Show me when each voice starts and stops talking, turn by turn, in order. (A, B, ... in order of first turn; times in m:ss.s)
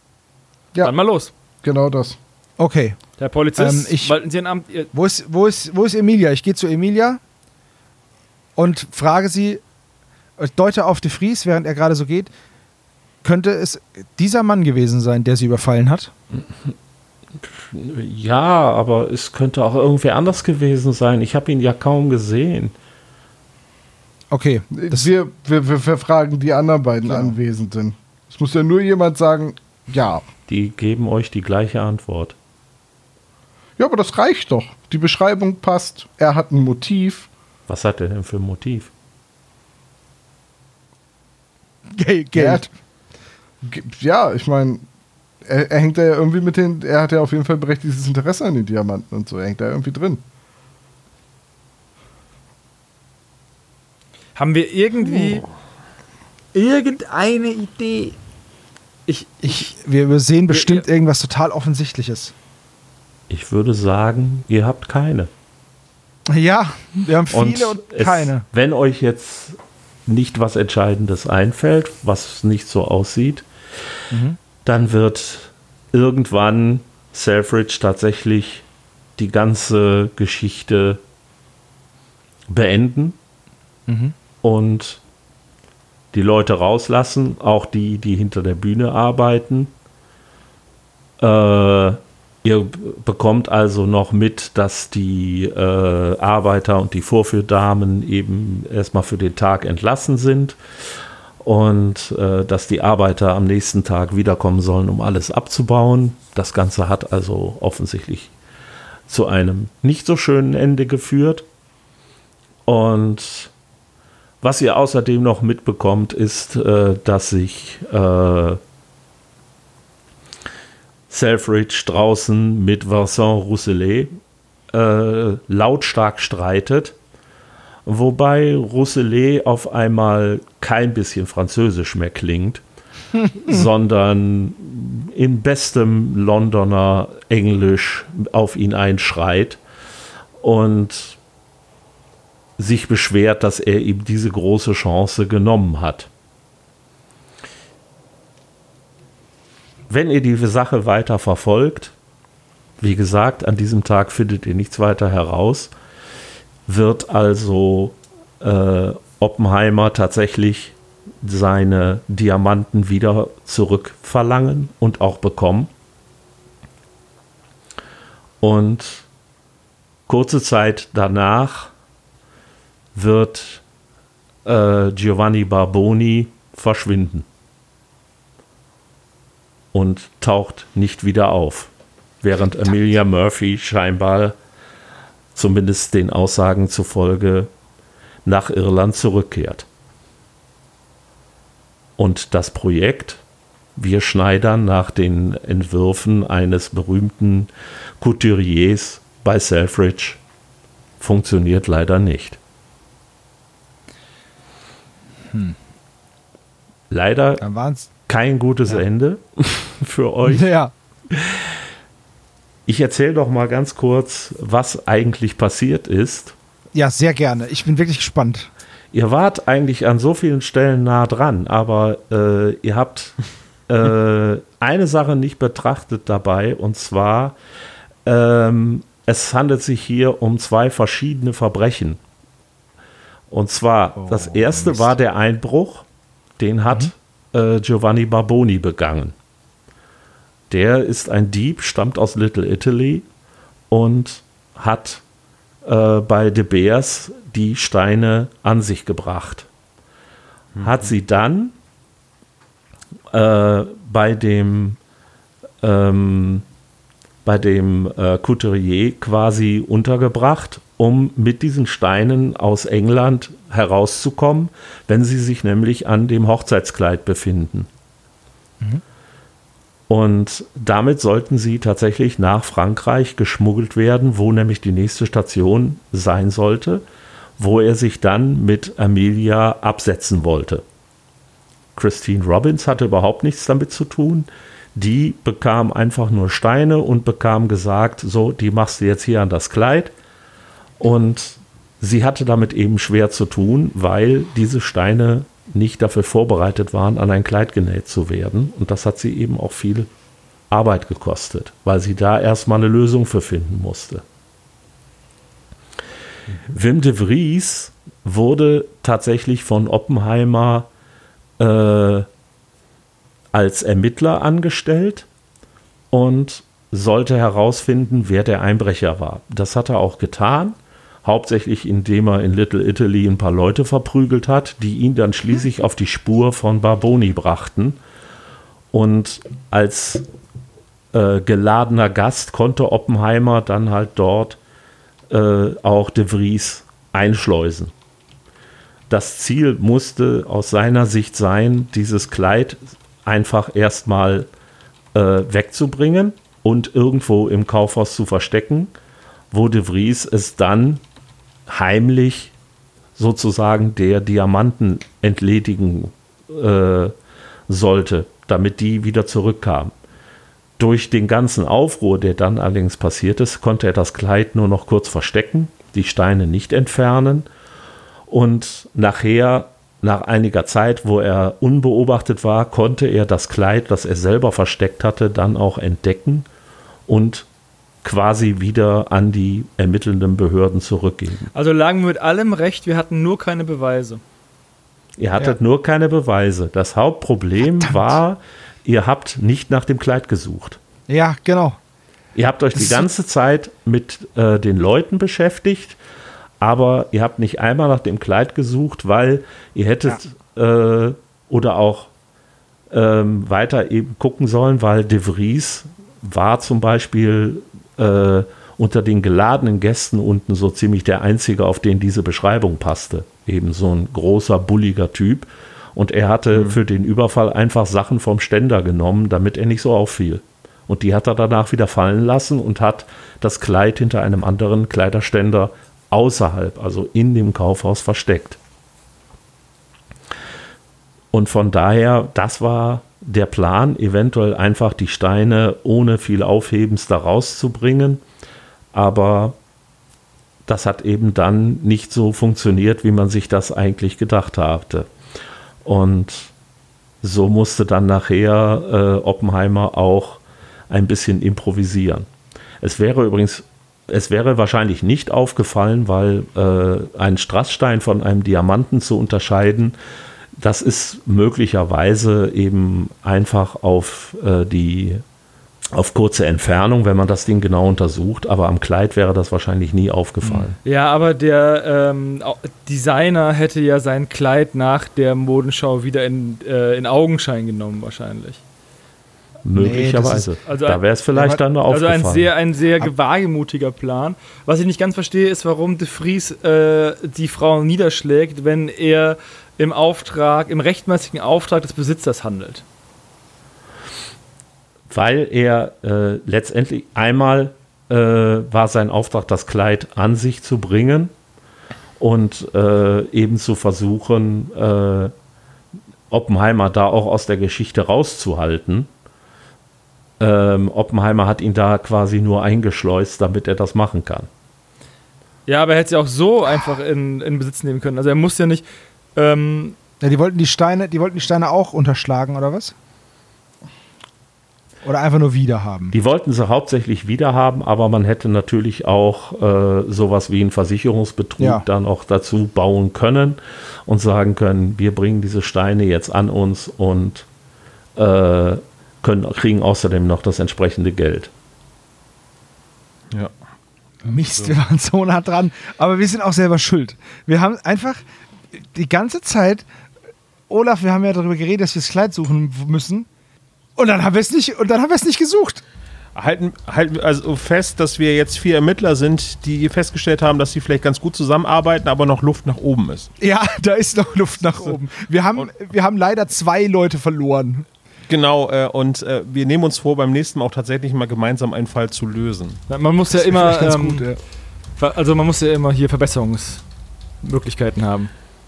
0:00.8-0:01.3 A
0:01.6-0:02.2 B
0:02.6-0:03.0 C
0:03.2-0:04.9 A
0:03.6-0:04.2 C
0:04.9-0:07.2 C
0:08.6-0:09.6 C
0:10.4-0:12.3 C
0:13.2-0:16.1 C
0:17.6-0:22.7 D
0:24.3-0:25.1 C
0:24.7-0:30.2 B
0:27.1-0:27.4 C
0:30.5-0:32.3 D
0:33.8-0:37.3 B
0:37.7-0:38.9 D
0:41.9-0:42.7 C
0:42.4-0:42.6 B
0:43.6-0:44.8 B
0:45.4-0:50.2 B
0:54.4-0:55.4 A
0:56.5-0:58.2 A
0:59.1-0:59.7 A
0:59.4-1:02.3 C
1:00.5-1:00.8 A
1:03.3-1:05.3 D
1:06.3-1:08.4 C
1:07.3-1:13.4 D
1:14.1-1:14.4 C
1:14.6-1:18.6 D
1:19.2-1:21.0 D
1:22.5-1:23.2 D
1:23.9-1:24.1 C
1:24.4-1:25.0 D
1:26.1-1:29.7 D
1:31.2-1:40.6 D
1:41.4-1:48.3 D
1:49.1-1:51.4 D
1:52.6-1:53.5 D
1:54.4-1:58.6 D
2:01.1-2:04.1 D
2:04.7-2:06.9 D
2:07.8-2:12.6 D
2:13.1-2:13.6 C
2:13.4-2:19.6 D
2:20.4-2:21.2 D
2:22.6-2:26.1 D
2:29.9-2:31.9 D
2:32.8-2:35.7 D
2:36.7-2:45.7 D
2:48.4-2:49.0 D
2:50.1-2:51.7 D
2:52.9-2:53.6 D
2:54.4-2:57.2 D
2:59.7-3:01.7 D
3:02.2-3:04.4 D
3:05.3-3:07.5 D
3:08.2-3:09.6 D
3:12.0-3:13.2 D
3:13.8-3:20.2 D
3:21.0-3:22.4 D
3:25.3-3:25.6 C
3:26.9-3:27.4 D
3:27.4-3:27.9 C
3:28.1-3:30.5 D
3:30.2-3:30.7 C
3:31.1-3:31.4 D
3:32.7-3:36.3 D
3:36.7-3:38.5 C
3:38.9-3:43.2 D
3:43.7-3:47.4 D
3:48.0-3:52.0 D
3:53.3-3:55.8 D
3:54.0-3:54.9 C
3:56.4-3:59.1 D
4:00.5-4:03.0 D
4:03.7-4:05.0 D
4:05.6-4:09.5 D
4:10.6-4:10.9 E
4:10.6-4:11.5 D
4:13.1-4:14.8 D
4:15.6-4:16.4 D
4:17.2-4:27.7 D
4:29.9-4:36.8 D
4:37.4-4:40.6 D
4:41.8-4:49.9 D
4:50.8-4:59.9 D
5:00.5-5:04.0 D
5:06.5-5:10.7 D
5:11.4-5:12.1 D
5:13.3-5:15.0 D
5:15.9-5:27.8 D
5:28.7-5:30.0 D
5:30.9-5:34.4 D
5:35.1-5:37.7 D
5:38.9-5:44.3 D
5:44.9-5:48.7 D
5:49.3-5:50.8 D
5:51.5-5:52.3 D
5:53.0-5:56.9 D
5:57.5-5:59.7 D
6:00.6-6:07.3 D
6:08.1-6:16.3 D
6:16.9-6:17.3 D
6:17.8-6:21.3 D
6:21.3-6:24.0 A
6:25.0-6:30.6 D
6:27.4-6:28.0 C
6:30.9-6:31.6 C
6:32.1-6:35.8 D
6:32.5-6:32.9 C
6:36.4-6:41.9 D
6:42.7-7:08.4 D
6:56.3-6:56.6 E
7:11.1-7:18.0 D
7:18.7-7:19.4 D
7:20.5-7:24.9 D
7:25.6-7:26.3 D
7:27.0-7:32.1 D
7:32.6-7:39.8 D
7:40.4-7:45.0 D
7:45.7-7:50.6 D
7:50.6-7:58.4 A
7:59.4-8:02.3 D
7:59.6-8:00.3 C
8:00.4-8:00.8 A
8:01.1-8:01.4 C
8:01.7-8:12.6 A
8:14.9-8:21.1 D
8:22.0-8:25.1 D
8:26.1-8:28.9 D
8:30.2-8:34.3 D
8:35.5-8:39.8 A
8:40.0-8:42.7 C
8:44.8-8:45.9 C
8:45.9-8:57.2 D
8:51.4-8:51.6 C
8:58.0-9:01.3 D
9:04.0-9:09.6 C
9:04.1-9:04.6 E
9:10.5-9:13.1 C
9:13.8-9:15.6 C
9:16.1-9:23.1 E
9:23.2-9:27.7 C
9:28.1-9:32.6 E
9:32.7-9:34.2 A
9:33.2-9:34.2 C
9:34.8-9:36.6 A
9:37.2-9:38.1 A